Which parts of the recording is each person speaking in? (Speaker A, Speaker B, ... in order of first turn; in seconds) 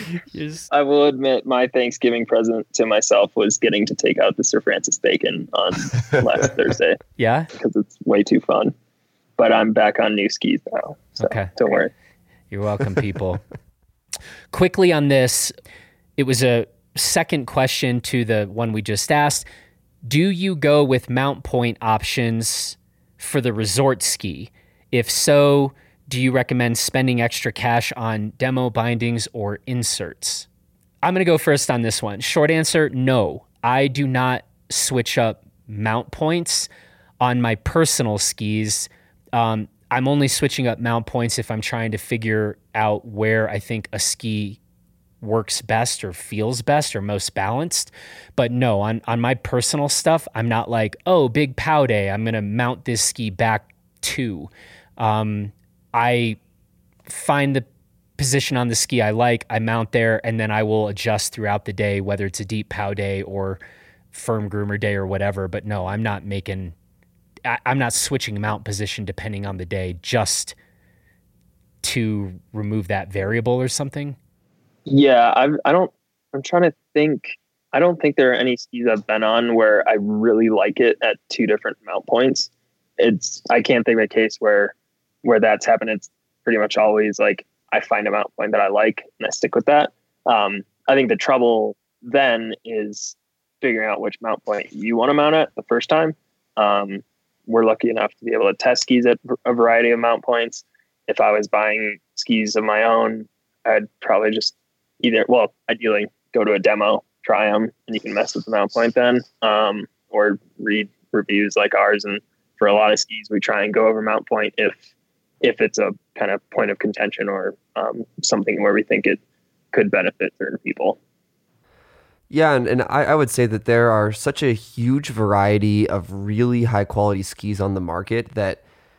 Speaker A: 0.3-0.7, 7.2-7.5, 11.2-11.5, 12.5-13.4, 14.5-15.5, 16.2-19.4, 20.1-30.5, 31.0-36.7, 37.2-44.6, 45.2-56.4, 57.1-57.6, 58.2-63.6, 64.1-66.7, 67.5-70.5, 71.8-74.2
Speaker B: 0.7-7.0, 7.5-8.7, 9.4-11.9, 74.9-114.8, 115.4-119.2, 119.7-121.0
Speaker C: 122.3-128.6